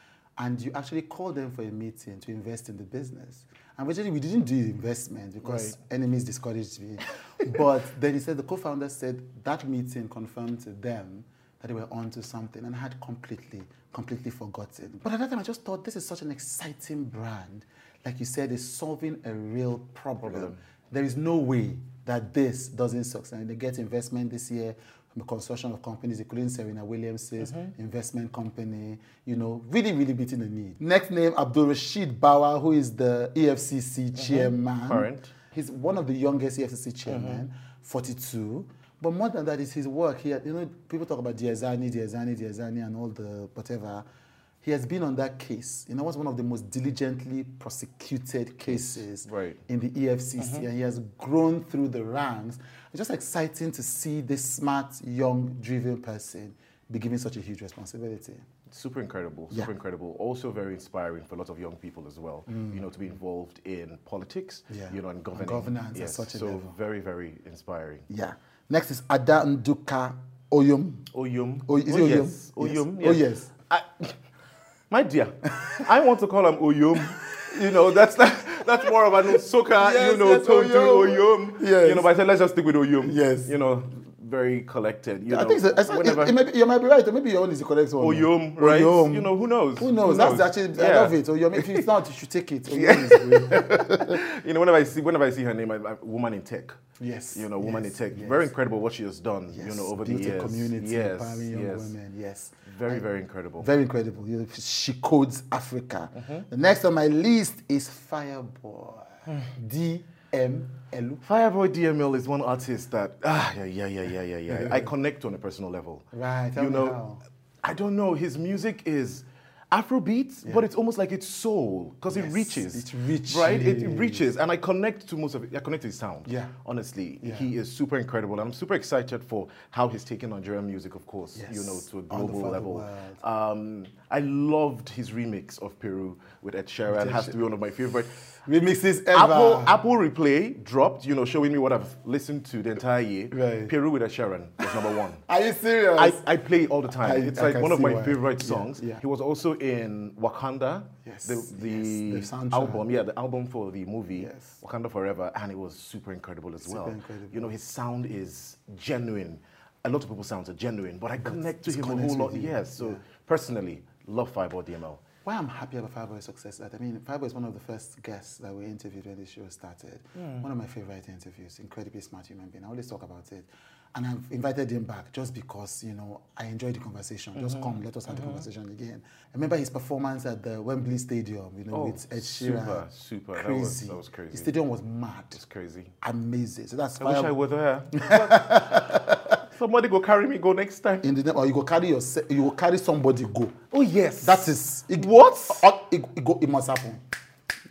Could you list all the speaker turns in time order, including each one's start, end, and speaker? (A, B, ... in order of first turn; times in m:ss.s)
0:00.4-0:44.0 A
0:05.4-0:05.8 B
0:20.2-0:20.6 B
0:27.4-0:27.7 B
0:34.2-0:35.3 B
0:37.1-0:37.4 B
0:44.6-0:58.4 A
0:48.6-0:49.6 B
0:50.4-0:50.7 B
0:58.7-1:08.1 B
1:02.5-1:02.9 A
1:04.7-1:06.8 A
1:08.1-1:11.1 A
1:11.1-1:14.2 B
1:11.6-1:13.5 A
1:14.9-1:26.4 B
1:19.7-1:22.1 A
1:23.0-1:23.5 A
1:25.3-1:34.2 A
1:28.0-1:31.9 B
1:32.7-1:36.8 B
1:37.0-1:38.5 A
1:37.3-1:41.9 B
1:39.5-1:43.1 A
1:42.7-1:43.7 B
1:43.6-1:51.2 A
1:46.2-1:46.4 B
1:51.2-1:57.0 B
1:54.5-1:54.9 A
1:56.1-1:57.2 A
1:57.6-2:18.2 B
2:02.1-2:04.3 A
2:06.2-2:06.6 A
2:07.2-2:07.5 A
2:11.4-2:13.2 A
2:16.9-2:17.4 A
2:18.5-2:19.8 A
2:19.1-2:25.2 B
2:23.3-2:23.7 A
2:25.2-2:26.2 A
2:26.0-2:45.0 B
2:26.9-2:29.0 A
2:31.0-2:32.9 A
2:34.2-2:34.6 A
2:36.6-2:37.5 A
2:41.2-2:43.0 A
2:45.2-3:05.4 A
2:50.2-2:50.5 B
2:57.4-2:58.4 B
3:01.7-3:04.5 B
3:05.4-3:05.9 B
3:06.0-3:07.3 A
3:07.0-3:11.1 B
3:07.9-3:09.4 A
3:11.0-3:13.6 A
3:13.7-3:15.6 B
3:14.2-3:17.0 A